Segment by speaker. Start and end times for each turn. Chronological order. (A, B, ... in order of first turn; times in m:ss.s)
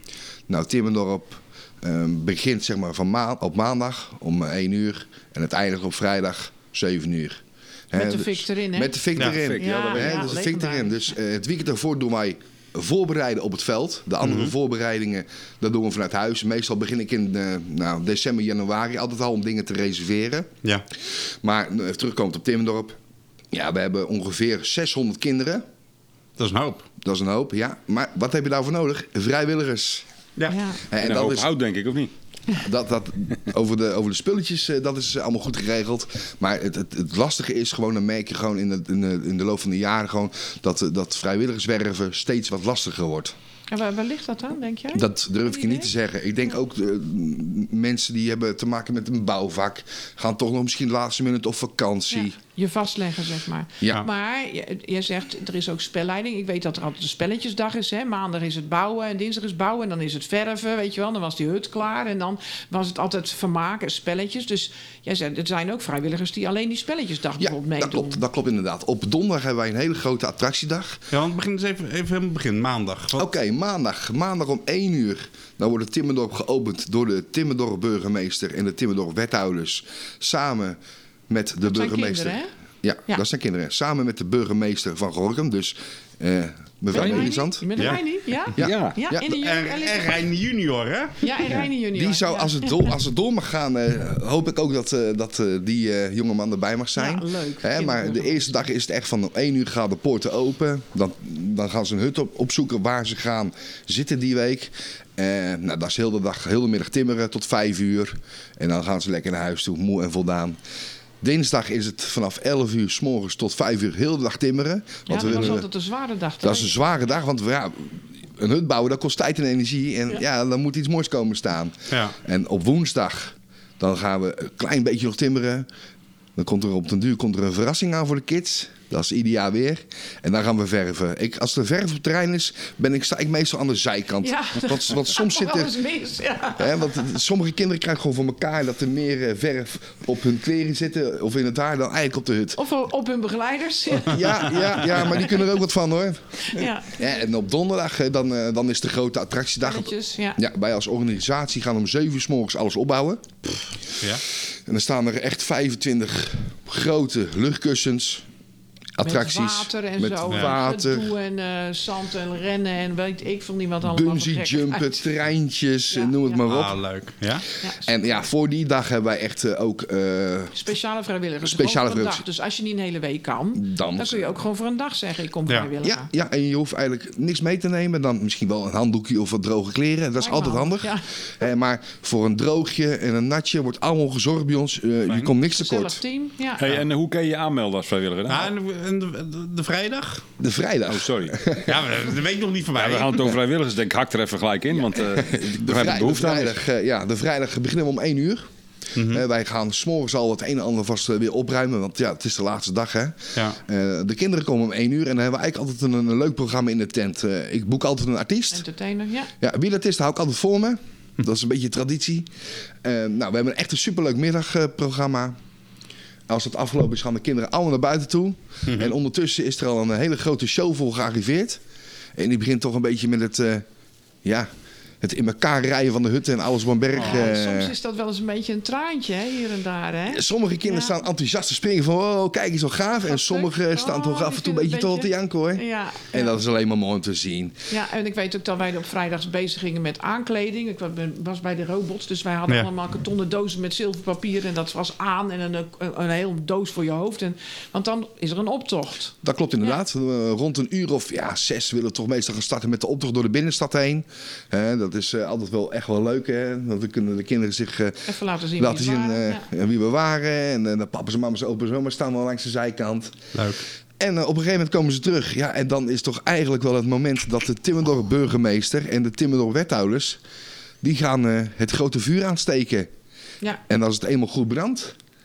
0:00.5-0:23.0 A
0:07.9-0:11.1 B
0:09.2-0:10.3 C
0:14.2-0:14.5 D
0:23.5-0:25.6 A
0:26.4-0:26.9 D
0:27.0-0:30.0 A
0:30.5-0:30.8 B
0:30.9-0:31.5 A
0:31.0-0:32.1 C
0:32.6-0:43.4 A
0:43.7-0:45.9 B
0:44.9-0:52.4 A
0:52.1-1:08.2 B
1:07.4-1:11.1 A
1:11.1-1:13.3 D
1:13.2-1:27.8 A
1:21.6-1:22.5 B
1:26.9-1:30.2 B
1:27.0-1:27.3 C
1:28.6-1:29.3 A
1:28.6-1:29.0 C
1:29.3-1:31.4 D
1:31.2-1:32.9 B
1:31.5-1:50.6 A
1:37.0-1:38.6 B
1:51.2-1:55.6 A
1:55.1-1:56.8 B
1:55.2-1:55.6 D
1:56.4-2:05.7 A
2:01.9-2:02.2 D
2:06.4-2:15.7 A
2:14.2-2:17.0 B
2:16.6-2:22.6 A
2:22.6-2:25.4 B
2:24.0-2:38.3 A
2:26.4-2:27.2 B
2:29.6-2:30.4 B
2:39.0-2:41.1 A
2:39.0-2:44.9 B
2:43.8-2:46.8 A
2:45.9-2:46.4 B
2:46.4-2:47.5 D
2:47.6-2:48.2 B
2:47.8-2:50.6 A
2:50.5-2:56.1 B
2:51.4-2:52.2 A
2:53.6-2:54.3 A
2:55.8-3:06.0 A
3:00.2-3:01.1 B
3:05.4-3:06.6 B
3:06.6-3:08.5 C
3:08.3-3:10.3 D
3:10.4-3:11.8 A
3:10.9-3:11.4 C
3:11.6-3:13.3 D
3:12.8-3:16.6 C
3:15.0-3:28.6 A
3:19.0-3:19.2 D
3:28.5-3:29.3 B
3:29.4-3:32.3 A
3:32.8-3:35.4 A
3:36.3-3:41.6 A
3:38.7-3:38.9 D
3:42.2-3:43.7 A
3:44.2-3:44.5 A
3:45.0-3:47.7 A
3:47.0-3:47.2 D
3:47.0-3:51.0 B
3:50.1-3:57.7 A
3:53.1-3:56.3 B
3:57.7-4:09.8 B
4:09.2-4:23.4 A
4:18.1-4:19.4 B
4:23.4-4:23.6 D
4:24.0-4:30.2 A
4:30.8-4:32.9 A
4:33.7-4:35.0 A